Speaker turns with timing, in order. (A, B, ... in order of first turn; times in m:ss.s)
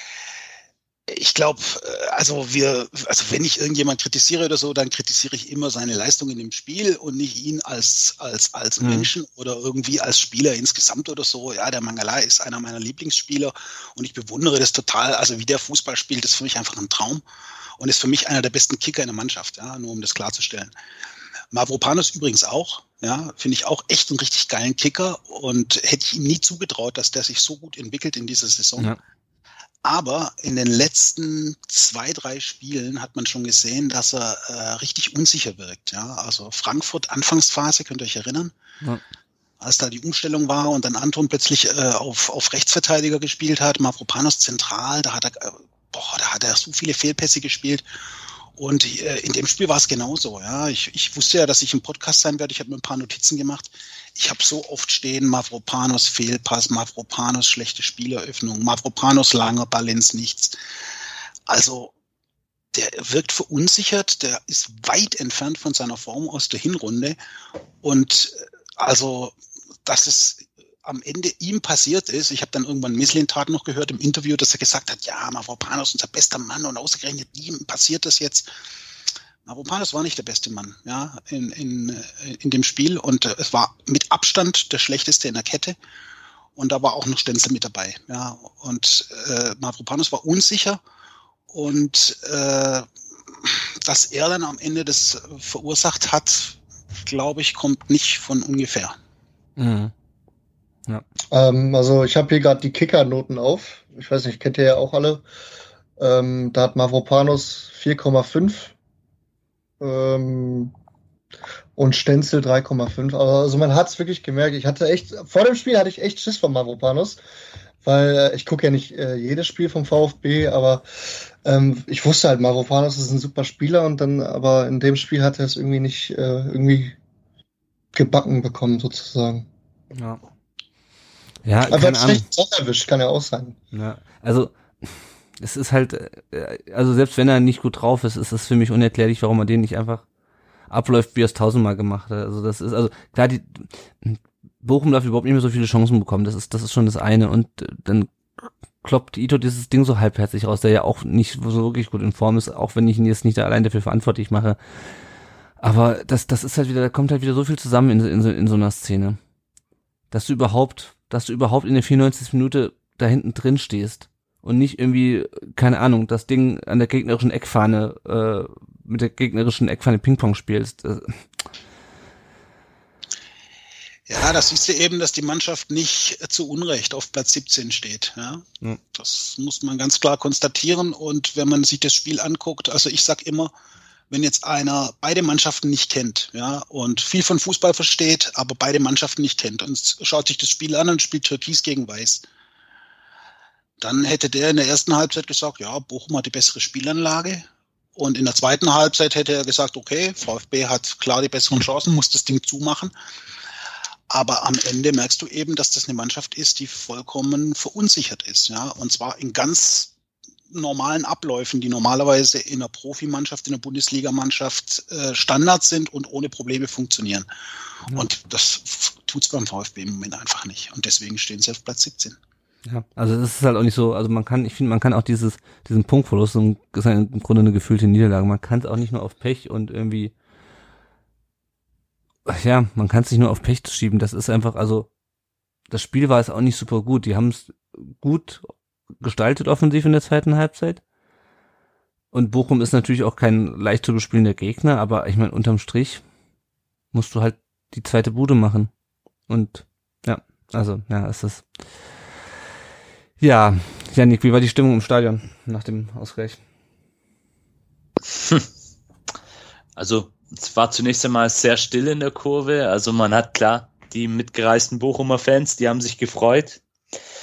0:01.1-0:17.2 A
0:08.8-0:09.1 B
0:17.8-0:20.7 A
0:21.5-0:28.9 A
0:29.8-0:38.5 A
0:39.6-0:47.8 A
0:48.6-1:00.6 A
1:01.5-1:01.9 A
1:02.7-1:07.2 A
1:07.8-1:18.5 A
1:19.4-1:25.8 A
1:26.6-1:30.8 A
1:31.5-1:32.9 A
1:33.4-1:39.0 A
1:39.6-1:39.9 B
1:41.3-1:45.2 C
1:46.0-1:48.7 C
1:49.8-1:50.7 C
1:51.8-1:57.2 C
1:57.8-2:00.8 C
2:01.4-2:07.0 C
2:07.9-2:09.5 C
2:09.9-2:10.2 B
2:11.4-2:12.2 B
2:11.7-2:13.6 C
2:13.7-2:20.0 B
2:20.7-2:28.1 B
2:28.8-2:34.6 B
2:35.6-2:39.2 B
2:40.1-2:51.2 B
2:54.1-3:03.5 A
3:04.1-3:12.2 A
3:13.8-3:22.9 A
3:24.1-3:29.9 A
3:30.5-3:37.3 A
3:37.9-3:42.2 A
3:42.6-3:50.1 B
3:52.3-3:54.9 B
3:55.7-3:58.4 B
3:59.0-4:00.8 B
4:02.1-4:06.0 B
4:06.9-4:08.7 B
4:09.3-4:11.4 B
4:13.2-4:16.4 B
4:18.2-4:18.4 D
4:19.8-4:26.6 D